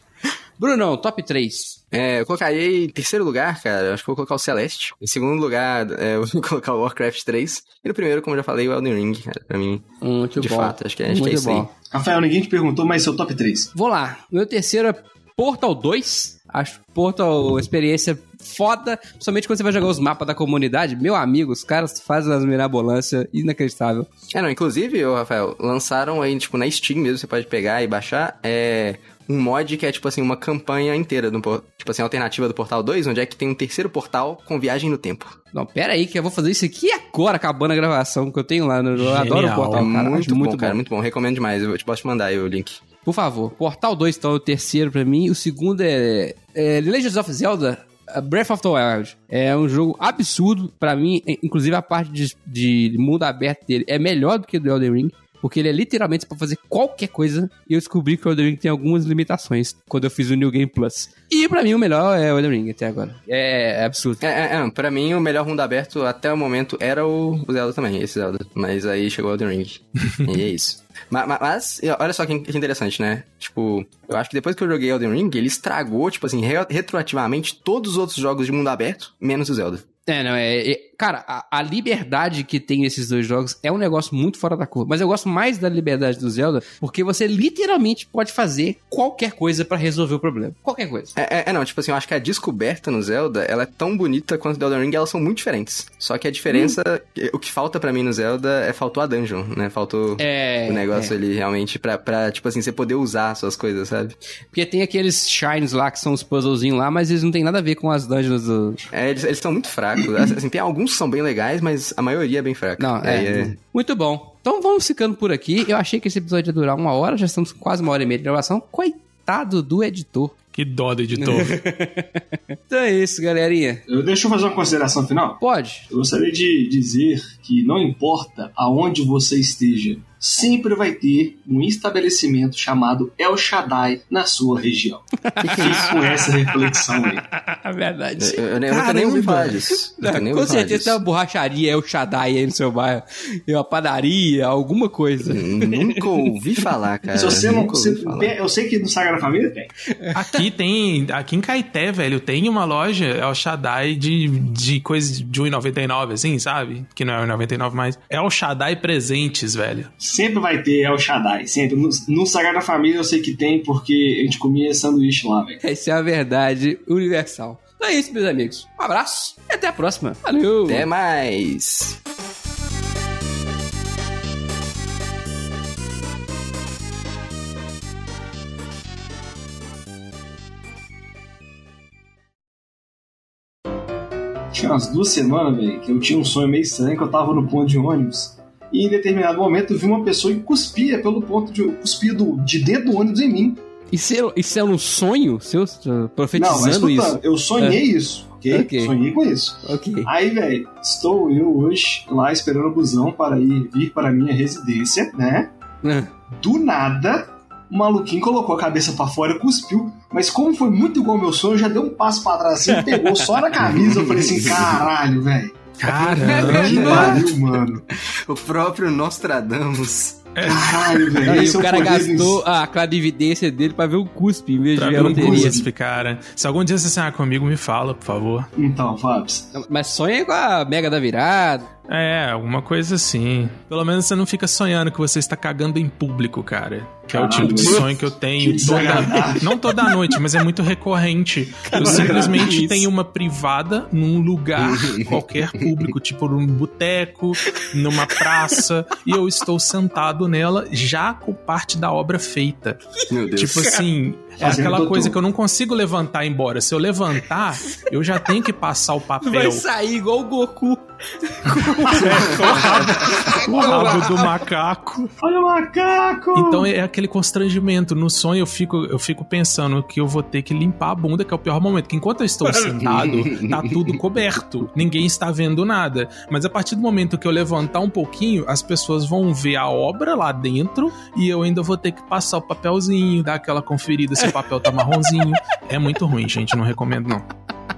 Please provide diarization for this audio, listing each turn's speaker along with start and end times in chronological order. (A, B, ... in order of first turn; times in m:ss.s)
0:00.6-0:01.8 A
0:01.9-0:11.7 B
0:10.0-0:11.7 A
0:11.9-0:13.7 C
0:13.8-0:24.1 A
0:24.3-0:35.4 B
0:35.5-0:40.8 A
0:39.0-0:39.9 D
0:39.8-0:42.8 B
0:43.0-1:04.2 A
1:04.2-1:19.8 B
1:20.1-1:31.1 A
1:31.2-1:44.2 B
1:40.2-1:41.1 A
1:44.5-1:48.8 A
1:48.9-1:53.6 B
1:52.8-2:00.3 A
2:00.5-2:01.6 D
2:01.2-2:03.8 A
2:03.9-2:17.3 C
2:05.4-2:05.9 A
2:15.2-2:16.5 A
2:15.4-2:15.9 B
2:17.3-2:18.4 A
2:18.2-2:21.0 B
2:18.7-2:19.6 D
2:19.8-2:26.3 A
2:25.2-2:28.4 B
2:27.1-2:29.7 C
2:30.0-2:30.4 A
2:30.1-2:39.9 D
2:40.0-2:45.6 C
2:45.6-2:50.9 A
2:50.7-2:52.0 B
3:04.5-3:13.6 C
3:13.9-3:17.8 A
3:16.4-3:25.5 C
3:18.5-3:18.9 A
3:19.6-3:20.1 A
3:25.8-3:26.1 A
3:26.3-3:35.6 C
3:32.7-3:33.3 A
3:33.6-3:34.8 B
3:35.8-3:37.3 D
3:35.8-3:37.2 A
3:36.2-3:37.3 B
3:36.3-3:37.8 C
3:38.1-3:40.3 B
3:40.4-3:41.2 D
3:40.4-3:42.4 C
3:41.2-3:45.6 A
3:44.8-3:48.5 D
3:45.0-3:45.7 C
3:48.6-3:49.5 C
3:49.5-3:51.7 A
3:51.9-4:19.6 D
3:57.1-3:59.6 C
3:57.4-3:57.9 A
3:58.8-4:00.1 A
4:01.6-4:02.9 A
4:01.7-4:02.4 C
4:04.6-4:05.8 B
4:07.5-4:08.6 A
4:13.1-4:13.7 B
4:14.4-4:15.2 C
4:19.2-4:24.3 A
4:21.6-4:25.1 D
4:25.2-4:26.7 C
4:26.4-4:47.2 D
4:32.8-4:34.0 B
4:44.2-4:45.1 A